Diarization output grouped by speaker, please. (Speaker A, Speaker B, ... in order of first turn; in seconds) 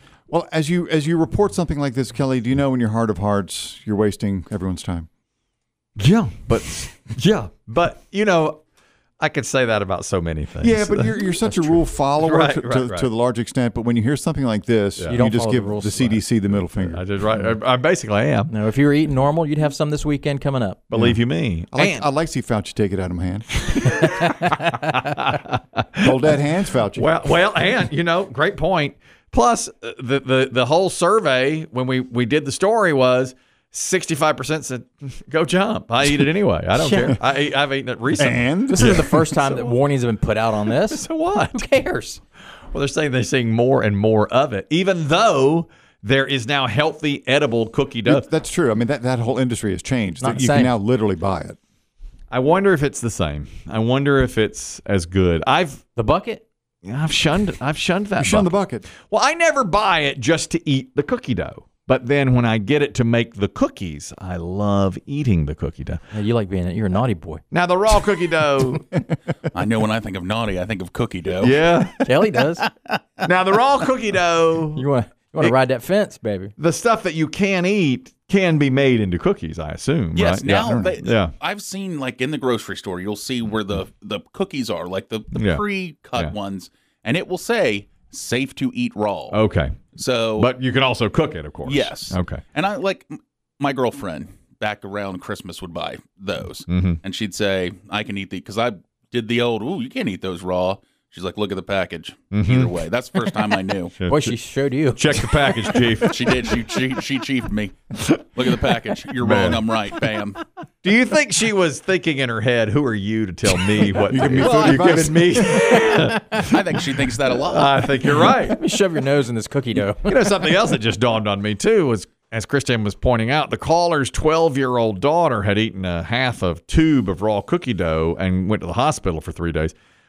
Speaker A: 0.3-5.1, 10.6-17.0, 21.7-23.6, 26.0-27.1, 38.1-39.2, 48.1-51.6, 58.2-58.9, 80.5-81.0, 114.0-115.7
Speaker B: 6.0-8.6, 9.2-13.1, 15.0-15.2, 16.8-18.5, 20.9-22.1, 23.7-26.1, 27.0-39.7, 40.8-41.6, 42.7-48.3, 52.3-55.8, 56.8-66.0, 67.5-69.0, 71.4-72.1, 73.2-74.8, 76.6-81.3, 85.3-85.6, 89.3-89.8, 90.4-92.4, 96.7-97.0, 102.3-102.7, 104.0-104.4, 104.9-106.6, 107.9-108.3, 109.2-109.7, 110.8-118.6, 120.0-129.7
Speaker C: 15.1-16.2, 18.5-20.8, 36.8-37.2, 38.7-42.2, 50.2-50.7, 56.0-56.4, 66.1-67.4, 72.0-72.7, 74.8-76.5, 104.1-105.9, 118.2-120.4
Speaker D: 69.5-71.9, 72.7-73.0, 80.2-89.4, 90.0-90.5, 91.7-104.0, 106.0-107.8, 108.3-110.4, 116.4-118.0